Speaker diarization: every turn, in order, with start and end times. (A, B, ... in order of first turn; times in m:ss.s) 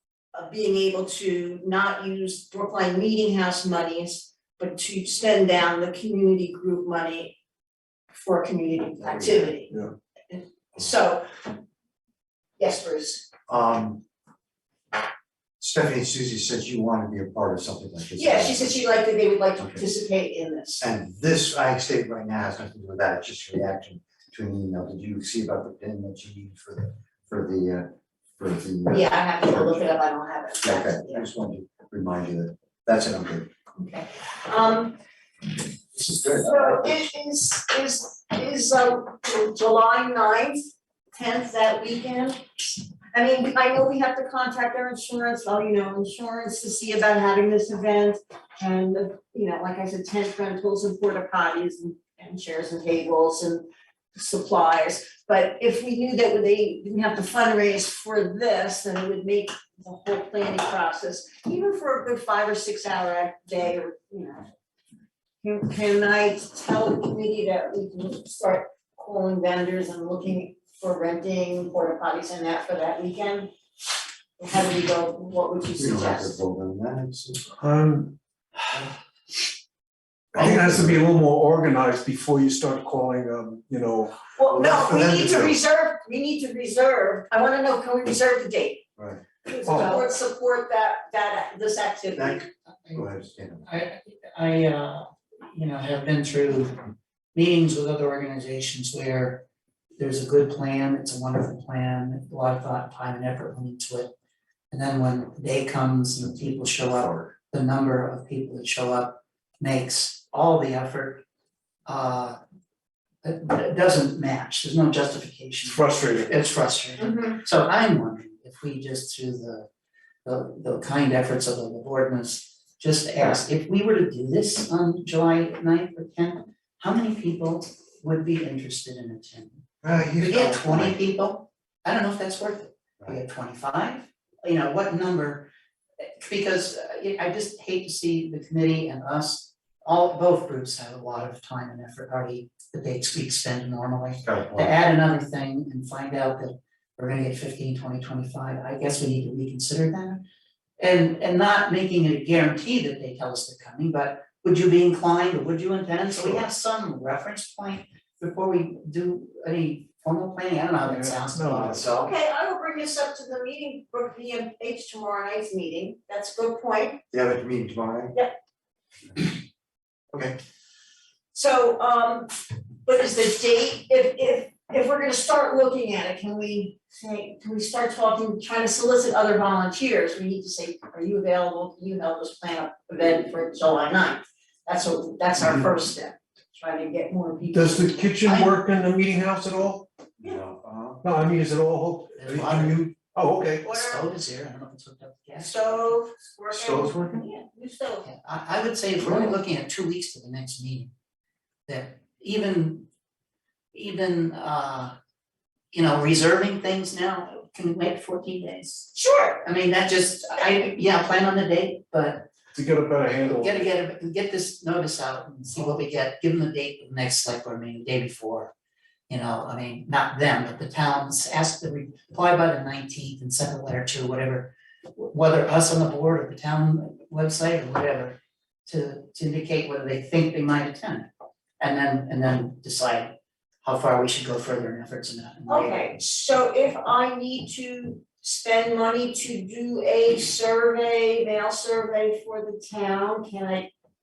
0:00.3-0:07.4 A
0:08.1-0:09.8 A
0:09.0-0:09.5 B
0:10.3-0:11.5 A
0:12.6-0:13.3 A
0:13.5-0:14.0 B
0:15.6-0:18.7 B
0:18.1-0:20.8 A
0:19.6-0:19.8 B
0:20.8-0:29.7 B
0:28.9-0:31.3 A
0:30.6-0:33.5 B
0:33.8-0:35.0 A
0:35.9-0:37.0 B
0:36.3-1:04.5 A
1:05.4-1:13.5 A
1:14.4-1:16.4 A
1:15.8-1:17.5 B
1:17.6-1:18.2 C
1:20.3-1:21.0 B
1:20.3-1:24.2 C
1:24.4-1:28.8 A
1:24.5-1:25.6 B
1:29.0-1:29.2 B
1:29.4-1:32.5 A
1:29.7-1:30.0 C
1:32.2-1:33.7 B
1:33.6-1:36.8 D
1:37.4-1:39.4 D
1:40.0-1:44.1 D
1:44.7-1:51.2 D
1:46.2-1:47.3 B
1:51.9-1:52.4 D
1:53.2-1:59.7 D
1:55.7-1:56.3 C
1:57.0-1:57.4 A
2:00.2-2:09.6 D
2:09.8-2:11.0 B
2:10.2-2:30.2 D
2:24.2-2:24.7 B
2:30.8-2:42.1 D
2:40.8-2:41.8 C
2:41.9-2:47.0 A
2:47.1-2:48.2 B
2:51.3-2:52.3 A
2:52.8-3:08.0 A
3:07.5-3:09.9 C
3:08.2-3:08.5 D
3:10.2-3:11.0 B
3:11.0-3:13.6 C
3:12.2-3:12.9 D
3:13.6-3:14.0 A
3:13.6-3:16.0 D
3:15.4-3:18.1 A
3:16.5-3:17.3 B
3:18.0-3:20.9 D
3:19.0-3:19.3 B
3:21.7-3:22.9 D
3:23.7-3:25.0 D
3:25.7-3:32.3 D
3:29.0-3:29.4 A
3:32.6-3:33.6 C
3:33.2-3:38.5 D
3:39.1-3:51.1 D
3:51.6-3:55.9 D
3:55.5-4:03.7 A